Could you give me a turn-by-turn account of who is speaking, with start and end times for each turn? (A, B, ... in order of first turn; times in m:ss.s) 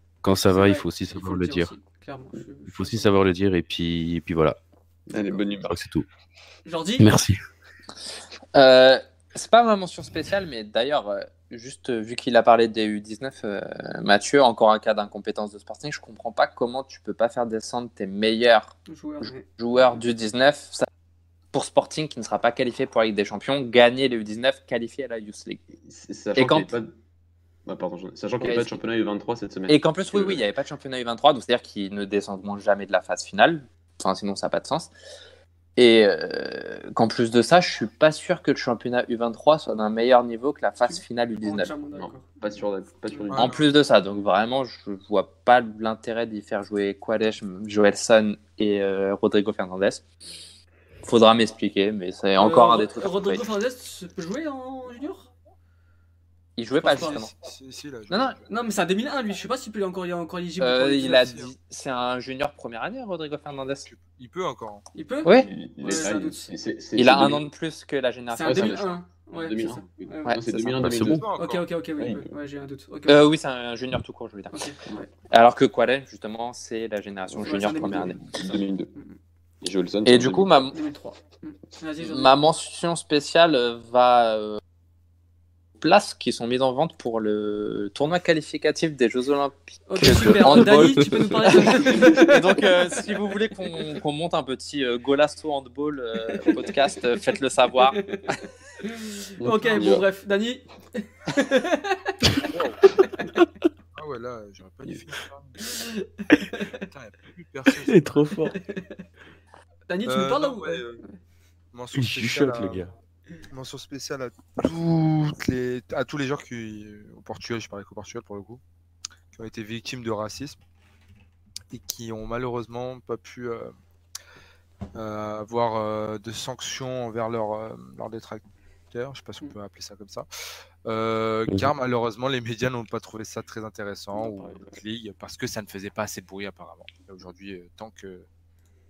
0:00.2-0:01.7 A
0:00.5-0:03.2 B
0:02.7-0:04.6 A
0:05.1-0:05.8 C
0:05.6-0:06.1 A
0:06.6-0:07.1 B
0:07.0-0:07.4 A
0:08.5-0:20.9 D
0:18.9-0:19.5 B
0:21.5-0:25.6 D
0:25.8-0:26.9 C
0:26.4-0:26.8 D
0:27.7-0:30.4 C
0:28.4-0:28.8 D
0:29.7-0:34.9 D
0:35.8-0:41.8 D
0:40.9-0:42.2 B
0:41.9-0:43.7 C
0:43.3-0:43.6 E
0:43.4-0:50.1 D
0:51.0-0:53.4 D
0:52.4-0:55.3 B
0:56.6-0:57.3 D
0:56.8-0:57.3 B
0:57.0-0:58.4 E
0:58.1-0:58.4 D
0:58.5-1:01.5 B
1:00.6-1:03.9 D
1:01.2-1:01.5 E
1:03.9-1:04.9 E
1:04.9-1:06.5 B
1:05.5-1:07.4 C
1:07.0-1:08.8 D
1:08.3-1:10.4 B
1:08.4-1:11.3 C
1:10.3-1:10.8 D
1:10.8-1:11.2 A
1:10.9-1:11.7 E
1:11.4-1:13.3 B
1:12.0-1:12.3 C
1:13.1-1:14.7 D
1:14.5-1:15.1 B
1:15.3-1:18.6 D
1:17.4-1:18.9 C
1:17.4-1:18.2 B
1:19.6-1:20.7 C
1:20.0-1:20.8 D
1:20.7-1:22.3 B
1:22.0-1:24.6 D
1:25.8-1:38.1 D
1:29.9-1:32.6 B
1:30.0-1:31.5 A
1:36.3-1:37.3 B
1:37.8-1:42.4 B
1:39.4-1:40.1 C
1:42.5-1:42.8 E
1:44.0-1:45.6 E
1:45.6-1:46.8 B
1:46.8-1:48.2 E
1:47.9-1:48.6 A
1:48.5-1:48.9 B
1:49.9-1:51.2 B
1:50.1-1:51.0 E
1:51.7-1:52.9 E
1:52.0-1:52.9 A
1:53.5-1:58.6 E
1:59.3-2:00.6 E
2:01.7-2:03.7 E
2:05.0-2:10.3 E
2:10.9-2:18.3 E
2:14.1-2:14.8 B